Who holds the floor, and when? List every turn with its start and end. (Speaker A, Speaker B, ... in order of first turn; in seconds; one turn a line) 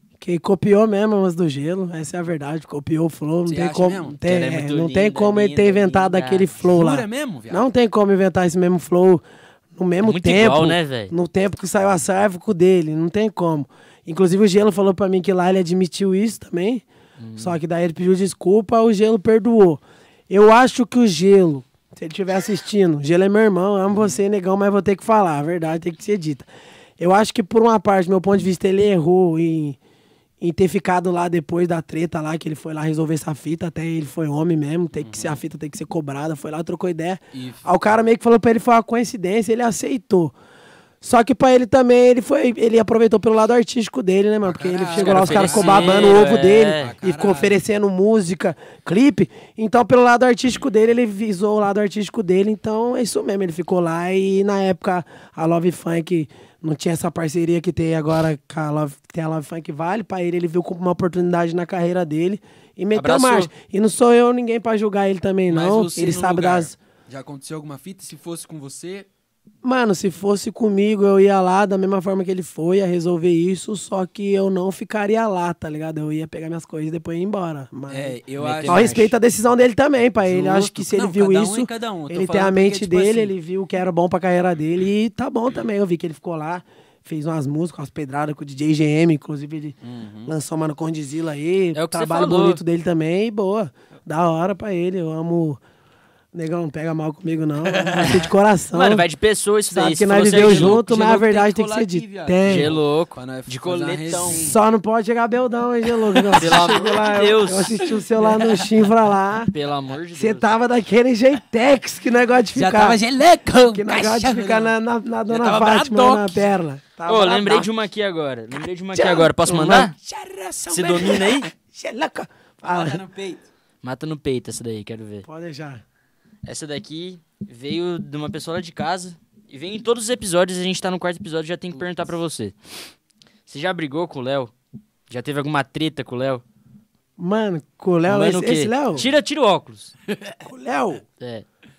Speaker A: 0.2-9.2
Speaker B: 3.5-4.2
Speaker C: 4.2-6.6
Speaker B: 6.7-7.7
Speaker A: 9.8-16.8
Speaker C: 10.0-11.1
Speaker C: 17.2-17.6
Speaker A: 17.4-26.5
Speaker A: 27.0-29.8
Speaker A: 30.4-40.3
Speaker B: 35.0-35.4
Speaker B: 37.3-37.7
Speaker A: 41.0-66.8
Speaker B: 44.4-47.6
Speaker C: 44.9-46.9
Speaker C: 63.0-63.5
Speaker B: 65.5-69.1
Speaker A: 69.6-95.6
Speaker B: 77.9-79.0
Speaker C: 78.4-79.2
Speaker B: 80.2-83.3
Speaker B: 89.8-90.3
Speaker C: 91.7-92.6
Speaker A: 96.3-99.0
Speaker B: 97.7-98.3
Speaker C: 98.7-100.8
Speaker A: 99.7-102.8
Speaker B: 100.3-104.6
Speaker C: 102.4-104.4
Speaker A: 104.3-109.5
Speaker B: 106.1-106.7
Speaker C: 106.3-107.9
Speaker B: 107.9-108.7
Speaker C: 109.5-110.5
Speaker A: 110.2-113.0
Speaker B: 112.5-114.8
Speaker A: 113.7-117.7
Speaker B: 115.3-116.5
Speaker C: 117.1-119.9
Speaker A: 118.9-119.9
Speaker B: 119.9-121.5
Speaker C: 120.7-121.5
Speaker A: 121.5-123.0
Speaker B: 122.6-123.5
Speaker C: 123.8-125.3
Speaker A: 125.3-125.8
Speaker C: 126.5-132.6
Speaker C: 133.5-134.5
Speaker C: 135.1-136.4
Speaker A: 137.2-139.1
Speaker C: 138.1-139.9
Speaker B: 140.1-140.4
Speaker A: 140.4-141.0
Speaker C: 141.2-141.4